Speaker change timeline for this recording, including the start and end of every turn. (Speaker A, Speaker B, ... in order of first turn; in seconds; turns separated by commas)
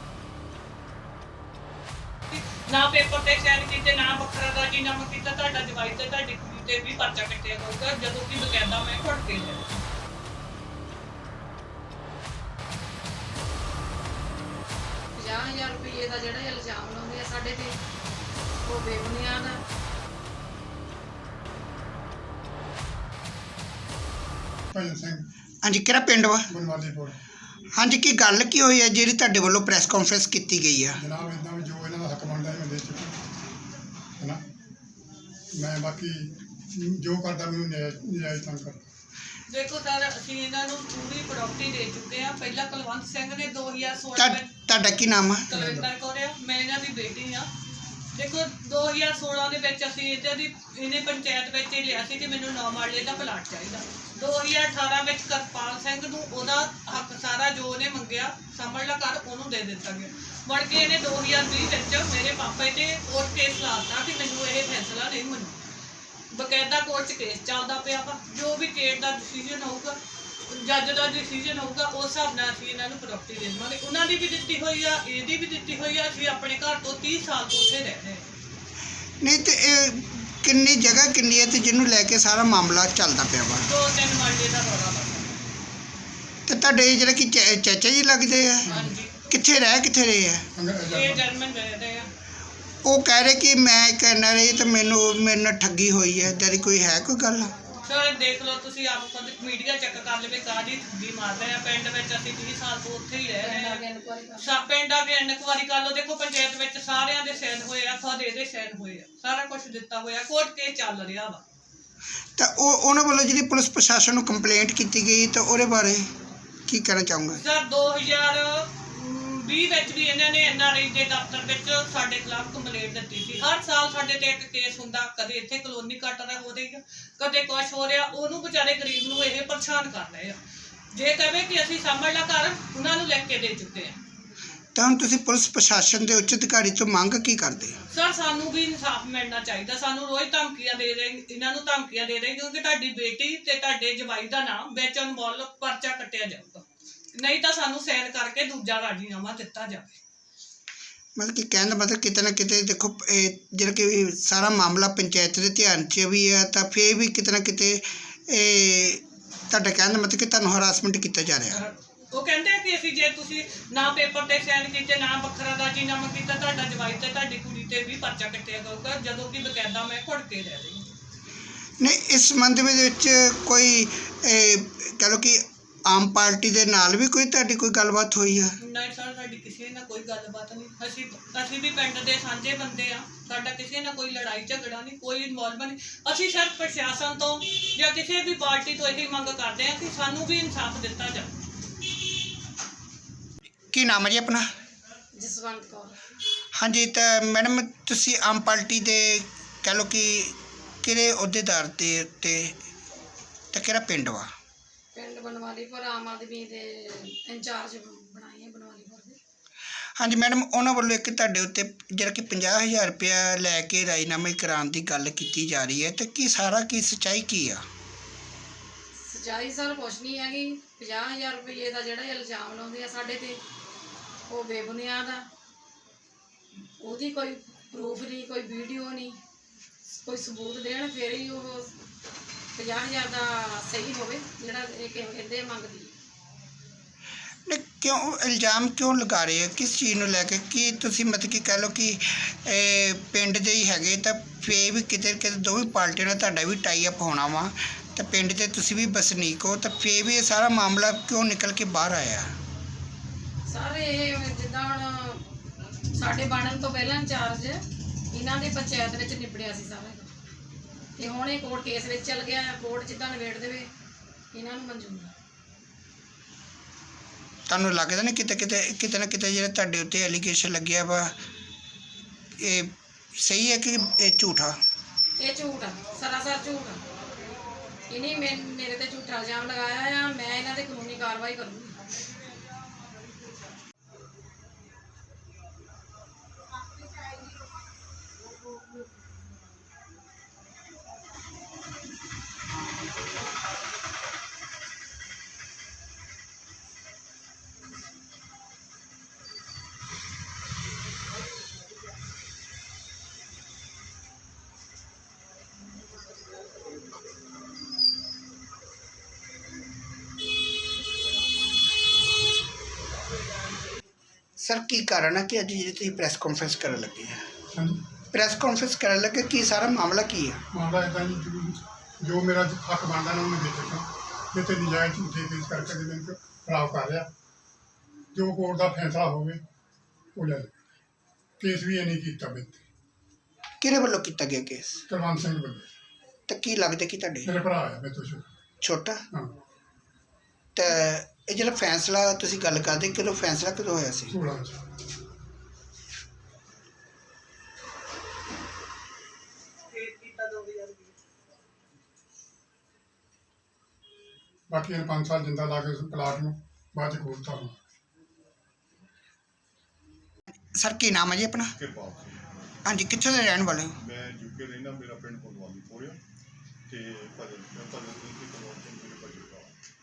Speaker A: 2.3-9.8, Speaker B: 15.2-17.8, Speaker B: 18.6-19.6, Speaker C: 24.7-25.2, Speaker D: 25.6-26.5, Speaker C: 26.5-27.2, Speaker D: 27.7-31.0, Speaker C: 30.9-33.2, Speaker C: 35.5-38.8, Speaker A: 39.5-44.5, Speaker D: 44.1-45.5, Speaker A: 45.5-47.5, Speaker C: 45.5-45.9, Speaker A: 48.1-65.6, Speaker A: 66.3-70.0, Speaker A: 70.5-78.2, Speaker D: 79.2-83.7, Speaker A: 83.6-85.3, Speaker D: 86.5-88.7, Speaker C: 88.6-89.0, Speaker A: 88.7-89.1, Speaker D: 89.3-90.5, Speaker C: 90.5-91.3, Speaker A: 90.9-92.1, Speaker D: 92.8-97.5, Speaker A: 97.8-103.8, Speaker B: 103.4-104.5, Speaker A: 104.4-111.4, Speaker D: 112.4-116.1, Speaker D: 116.7-117.4, Speaker A: 117.3-130.4, Speaker A: 130.9-133.9, Speaker D: 134.7-137.8, Speaker A: 137.9-150.0, Speaker D: 151.2-161.6, Speaker A: 161.5-170.8, Speaker D: 171.8-178.5, Speaker A: 178.6-191.3, Speaker D: 193.7-194.4, Speaker B: 195.1-196.0, Speaker D: 196.5-202.6, Speaker D: 203.5-204.3, Speaker B: 204.9-209.2, Speaker D: 210.0-217.6, Speaker B: 219.0-223.4, Speaker B: 224.3-225.3, Speaker B: 226.8-229.2, Speaker B: 230.0-231.7, Speaker B: 232.5-235.9, Speaker D: 237.5-252.3, Speaker B: 253.5-255.2, Speaker B: 255.9-260.1, Speaker B: 261.0-263.7, Speaker B: 264.3-265.1, Speaker D: 267.5-271.1, Speaker D: 272.4-274.6, Speaker B: 275.2-276.8, Speaker B: 277.9-281.8, Speaker D: 314.4-317.3, Speaker C: 317.5-317.9, Speaker D: 318.1-320.4, Speaker C: 320.5-327.1, Speaker C: 328.1-329.4, Speaker C: 330.1-330.5, Speaker C: 331.4-332.6, Speaker D: 333.6-334.8, Speaker C: 334.9-335.7, Speaker D: 336.3-337.3, Speaker C: 337.2-338.2, Speaker D: 338.6-339.0, Speaker D: 340.5-344.1, Speaker C: 344.1-344.6, Speaker A: 349.7-350.9, Speaker C: 354.5-357.6, Speaker D: 360.5-361.5, Speaker E: 361.5-362.4, Speaker D: 362.6-363.8, Speaker E: 363.8-366.0, Speaker E: 366.7-369.5